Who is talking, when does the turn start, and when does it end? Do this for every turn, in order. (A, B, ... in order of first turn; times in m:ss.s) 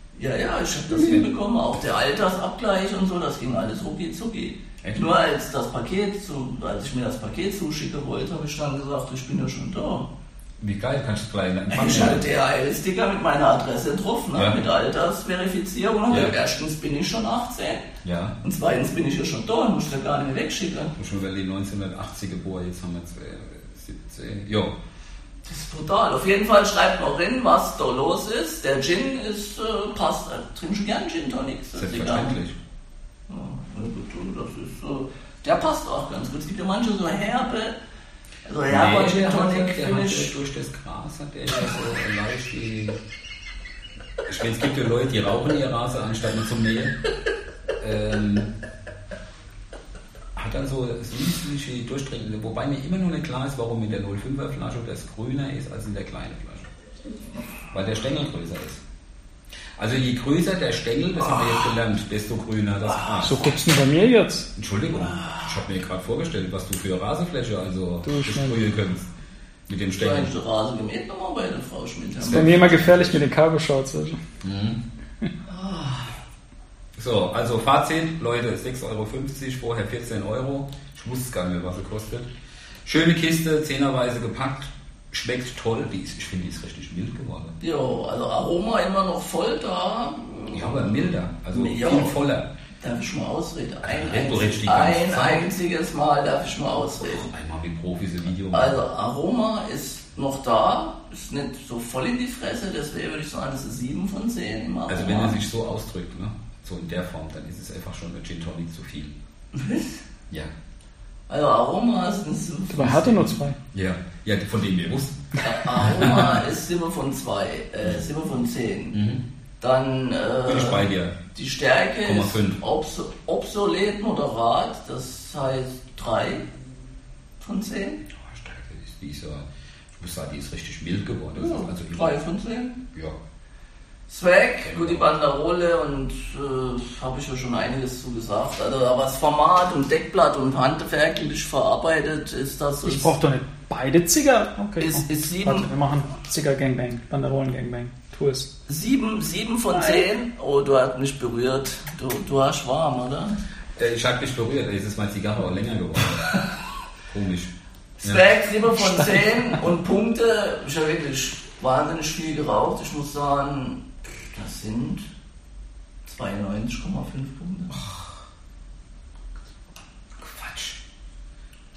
0:00.2-0:10.1 A
0:00.9-0:01.3 B
0:04.8-0:05.1 B
0:10.6-0:12.2 B
0:11.7-0:17.9 A
0:14.4-0:14.6 B
0:16.1-0:16.4 B
0:18.0-0:18.4 B
0:18.4-0:21.0 A
0:21.0-0:24.7 B
0:25.4-0:32.4 A
0:31.8-0:32.6 B
0:33.3-0:37.8 A
0:38.4-0:40.4 A
0:38.7-0:43.0 B
0:44.2-0:47.0 B
0:47.8-0:48.5 B
0:50.4-0:56.7 B
0:57.7-0:58.8 B
0:59.8-1:03.5 B
1:03.2-1:04.5 C
1:04.5-1:09.1 B
1:08.0-1:08.6 C
1:09.7-1:10.3 B
1:09.9-1:12.9 A
1:12.2-1:13.2 B
1:12.3-1:14.2 C
1:14.4-1:14.8 B
1:15.4-1:16.1 A
1:17.0-1:22.3 B
1:22.8-1:27.6 B
1:27.6-1:32.2 A
1:30.5-1:32.5 B
1:32.8-1:37.3 A
1:33.8-1:35.5 B
1:37.0-1:38.8 B
1:38.5-1:45.4 A
1:44.9-1:49.2 B
1:49.5-1:50.0 A
1:51.3-1:53.4 A
1:52.7-1:53.6 C
1:53.7-1:55.2 B
1:55.4-1:59.0 A
1:55.8-1:56.3 B
1:58.9-1:59.2 B
1:59.6-2:06.4 A
2:00.4-2:01.2 B
2:02.0-2:02.6 B
2:07.4-2:08.0 A
2:08.1-2:09.4 B
2:10.0-2:12.2 B
2:11.4-2:12.8 A
2:12.9-2:13.2 B
2:14.1-2:23.1 A
2:14.6-2:15.1 B
2:22.8-2:28.5 C
2:24.8-2:25.7 A
2:28.7-2:33.4 A
2:33.8-2:36.4 B
2:37.1-2:38.2 B
2:38.0-2:45.1 A
2:39.0-2:39.5 C
2:46.0-2:47.8 A
2:47.7-2:48.1 B
2:50.2-2:50.8 B